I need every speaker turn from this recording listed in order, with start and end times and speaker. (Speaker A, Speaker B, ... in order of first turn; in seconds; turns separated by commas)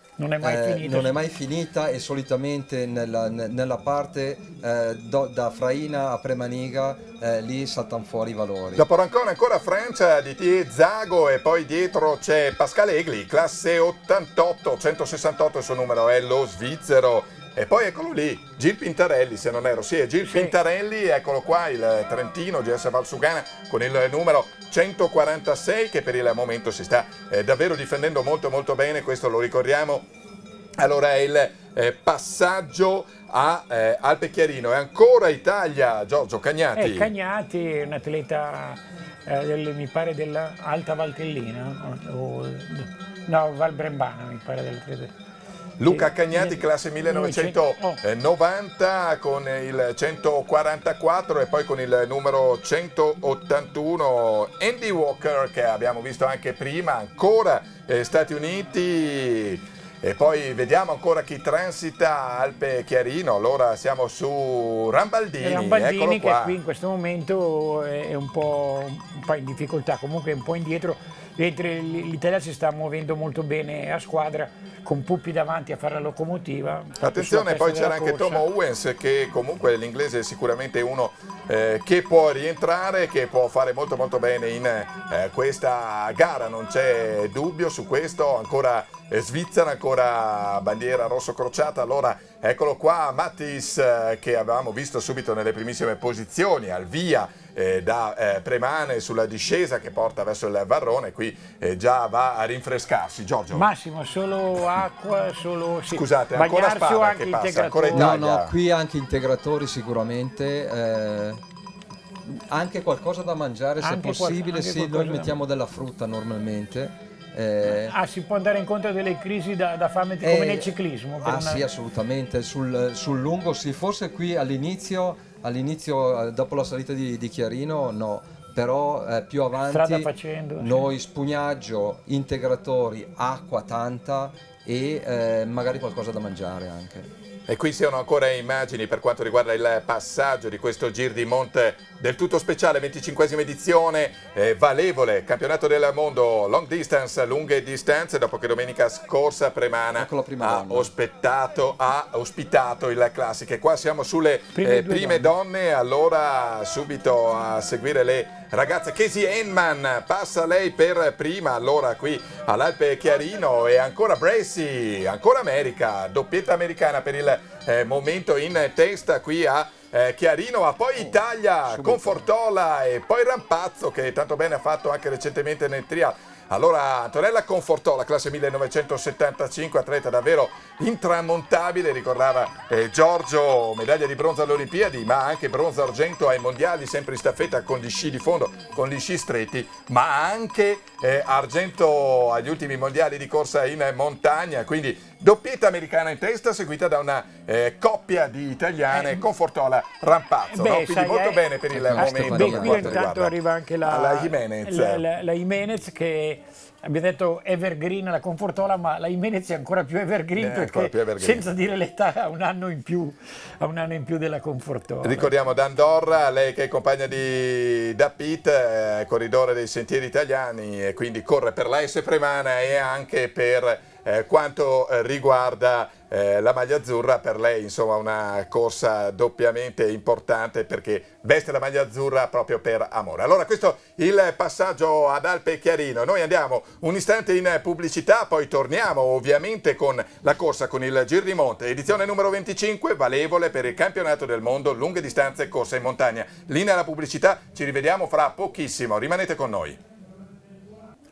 Speaker A: 0.2-1.2, Speaker B: 0.4-8.8, Speaker C: 8.8-30.1, Speaker A: 20.2-20.6, Speaker C: 30.8-37.1, Speaker A: 36.7-45.1, Speaker C: 45.8-66.6, Speaker A: 45.9-48.0, Speaker A: 65.4-78.4, Speaker C: 77.0-103.7, Speaker A: 103.5-108.2, Speaker C: 105.9-108.5, Speaker B: 107.9-111.4, Speaker B: 112.2-117.9, Speaker A: 113.8-115.4, Speaker A: 117.7-121.6, Speaker B: 120.2-137.1, Speaker A: 129.7-130.9, Speaker C: 137.5-205.0, Speaker B: 149.9-150.9, Speaker A: 154.5-155.3, Speaker B: 171.0-172.2, Speaker A: 198.9-199.2, Speaker A: 200.5-215.3, Speaker B: 201.7-203.1, Speaker C: 210.4-211.4, Speaker C: 215.0-249.8